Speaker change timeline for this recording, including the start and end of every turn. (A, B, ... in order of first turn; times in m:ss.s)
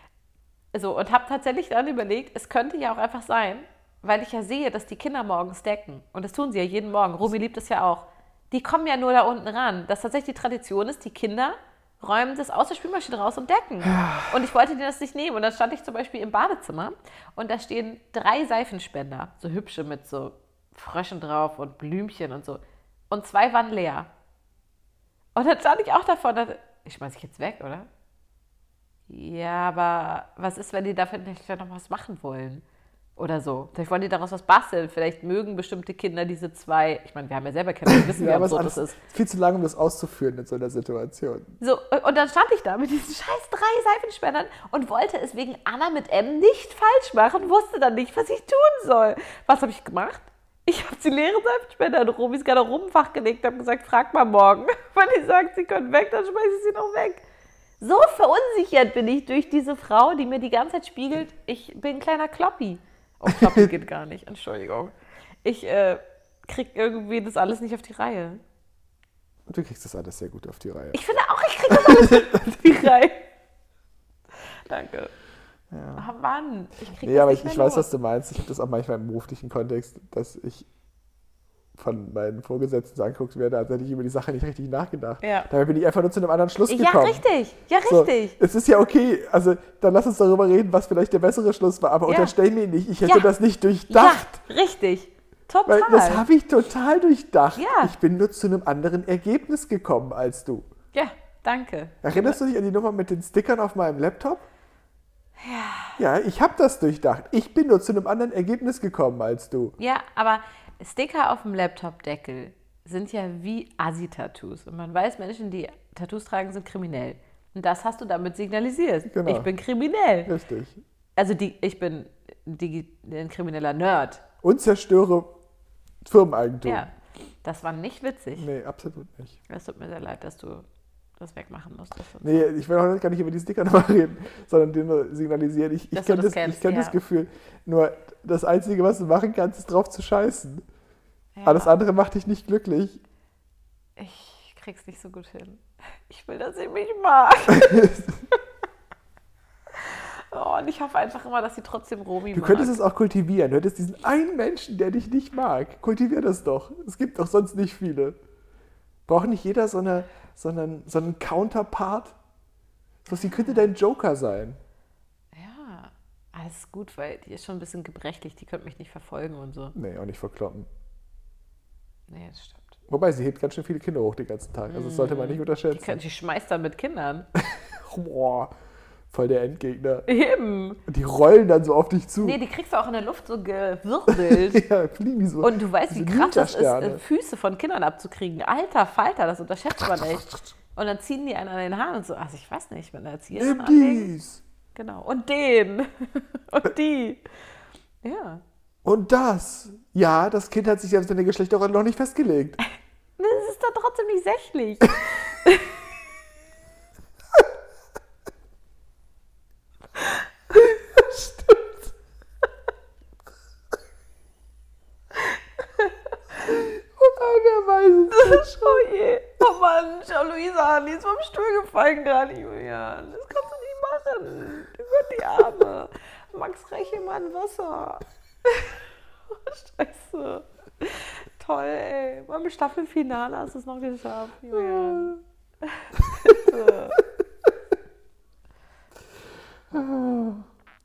0:00.7-0:24.1 A
0:13.9-0:14.3 B
0:25.4-0:27.9 A
0:29.1-0:32.6 A
0:33.2-0:39.0 A
0:37.9-0:41.6 B
0:41.6-0:57.2 A
0:57.8-1:08.4 A
1:03.3-1:03.7 B
1:09.5-1:11.0 B
1:10.9-1:13.3 A
1:11.7-1:12.7 B
1:14.7-1:15.1 A
1:15.7-1:16.1 B
1:16.0-1:17.9 A
1:16.9-1:20.7 B
1:21.8-1:27.2 B
1:25.2-1:25.5 A
1:26.7-1:28.4 A
1:27.9-1:34.3 B
1:32.1-1:32.3 A
1:33.0-1:33.3 A
1:33.9-1:36.2 A
1:35.7-1:40.7 B
1:37.6-1:37.9 A
1:40.9-1:42.4 A
1:42.0-1:44.5 B
1:45.4-1:46.0 A
1:46.0-1:49.8 B
1:49.8-2:00.3 A
1:59.1-1:59.5 B
2:00.3-2:00.8 B
2:01.2-2:04.2 A
2:04.4-2:05.4 B
2:06.0-2:06.9 B
2:06.6-2:06.9 A
2:07.4-2:08.5 A
2:08.4-2:09.4 B
2:09.5-2:10.7 A
2:11.2-2:12.5 A
2:12.2-2:20.6 B
2:15.9-2:17.0 A
2:21.4-2:21.8 A
2:21.4-2:23.0 B
2:24.0-2:28.0 A
2:27.5-2:28.2 B
2:29.7-2:32.8 A
2:32.3-2:38.2 B
2:39.1-2:42.2 B
2:43.1-2:44.6 B
2:43.1-2:43.7 A
2:45.3-2:49.8 A
2:49.8-2:50.7 B
2:52.1-2:52.8 A
2:52.9-2:56.0 B
2:54.7-2:57.3 A
2:57.4-2:58.5 B
2:59.1-3:00.1 B
3:00.1-3:00.8 A
3:00.9-3:02.4 B
3:02.2-3:04.7 A
3:04.1-3:07.0 B
3:05.4-3:14.1 A
3:13.3-3:14.4 B
3:14.8-3:17.2 A
3:18.0-3:18.4 A
3:18.8-3:22.6 B
3:23.2-3:25.8 A
3:30.0-3:30.8 A
3:31.0-3:31.5 B
3:35.1-3:36.0 A
3:36.5-3:38.9 B
3:38.1-3:57.0 A
3:54.6-3:55.2 B
3:56.3-3:57.0 B
3:59.7-4:00.5 B